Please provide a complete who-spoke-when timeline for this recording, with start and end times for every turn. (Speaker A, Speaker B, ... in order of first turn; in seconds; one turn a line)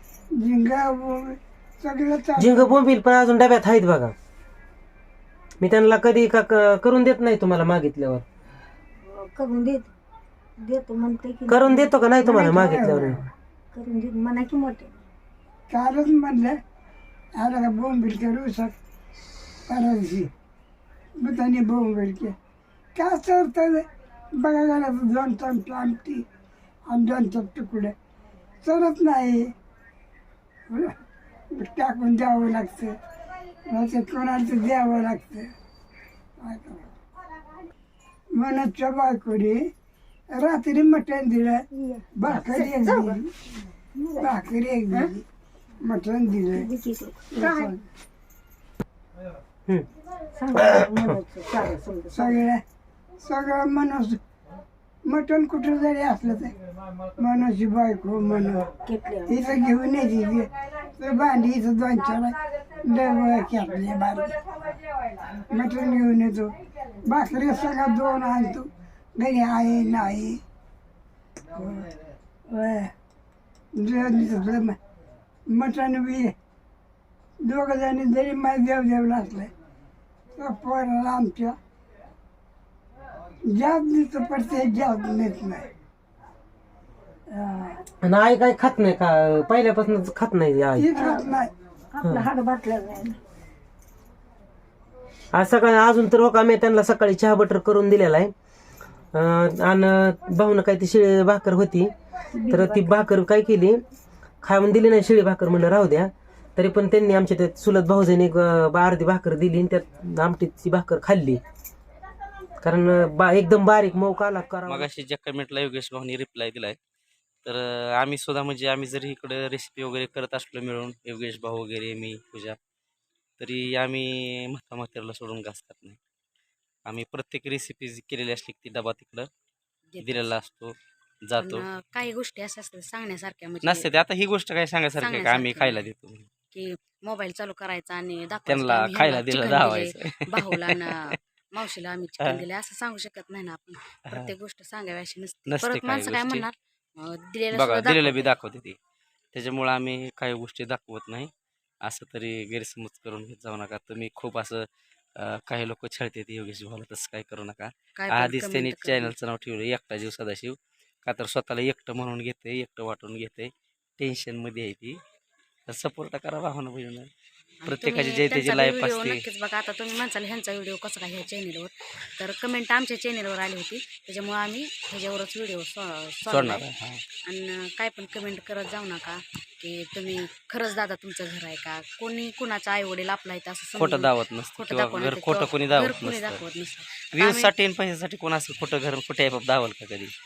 Speaker A: 0.3-2.7
Speaker B: 2.4-4.1
Speaker B: 5.6-8.2
Speaker C: 9.1-9.9
Speaker C: 10.6-11.9
Speaker B: 11.5-13.2
Speaker A: 12.2-13.3
Speaker C: 13.7-14.9
Speaker A: 15.7-16.6
Speaker A: 17.4-18.8
Speaker A: 19.7-20.3
Speaker A: 21.2-22.4
Speaker A: 22.9-26.2
Speaker A: 26.9-27.9
Speaker A: 28.6-29.5
Speaker A: 30.7-30.9
Speaker A: 31.5-33.0
Speaker A: 33.7-35.5
Speaker A: 36.4-36.9
Speaker A: 38.3-39.7
Speaker A: 40.3-41.6
Speaker C: 41.8-43.2
Speaker A: 42.2-43.3
Speaker C: 44.0-44.4
Speaker A: 44.2-45.2
Speaker A: 45.8-46.7
Speaker C: 46.5-47.7
Speaker A: 47.3-47.8
Speaker C: 50.3-52.5
Speaker B: 50.5-51.2
Speaker A: 52.1-52.6
Speaker A: 53.2-54.2
Speaker A: 55.0-56.5
Speaker A: 57.2-64.5
Speaker C: 58.8-59.5
Speaker A: 65.4-70.4
Speaker A: 71.5-71.9
Speaker A: 72.5-72.9
Speaker A: 73.7-74.8
Speaker A: 75.5-76.3
Speaker A: 77.4-79.5
Speaker A: 80.4-81.6
Speaker A: 83.4-85.7
Speaker A: 87.3-87.8
Speaker B: 88.0-90.9
Speaker A: 90.8-91.5
Speaker C: 91.0-91.4
Speaker C: 91.9-93.2
Speaker B: 92.0-92.3
Speaker B: 95.3-98.3
Speaker B: 99.1-101.9
Speaker C: 102.3-102.9
Speaker B: 102.5-103.8
Speaker B: 104.4-111.4
Speaker B: 112.6-114.9
Speaker D: 114.7-116.8
Speaker D: 117.4-122.6
Speaker D: 123.4-126.0
Speaker D: 126.9-129.3
Speaker E: 129.9-130.3
Speaker D: 130.0-130.8
Speaker D: 131.3-131.7
Speaker E: 131.4-133.9
Speaker D: 133.6-136.3
Speaker E: 135.0-135.8
Speaker E: 136.5-148.4
Speaker D: 138.5-141.2
Speaker D: 145.5-146.5
Speaker D: 147.5-148.8
Speaker D: 149.3-151.3
Speaker D: 151.8-165.0
Speaker E: 158.0-159.1
Speaker D: 165.7-167.1
Speaker E: 167.6-176.6
Speaker D: 167.7-169.2
Speaker D: 176.3-177.1
Speaker E: 177.2-187.5
Speaker D: 183.8-186.4
Speaker D: 187.1-190.1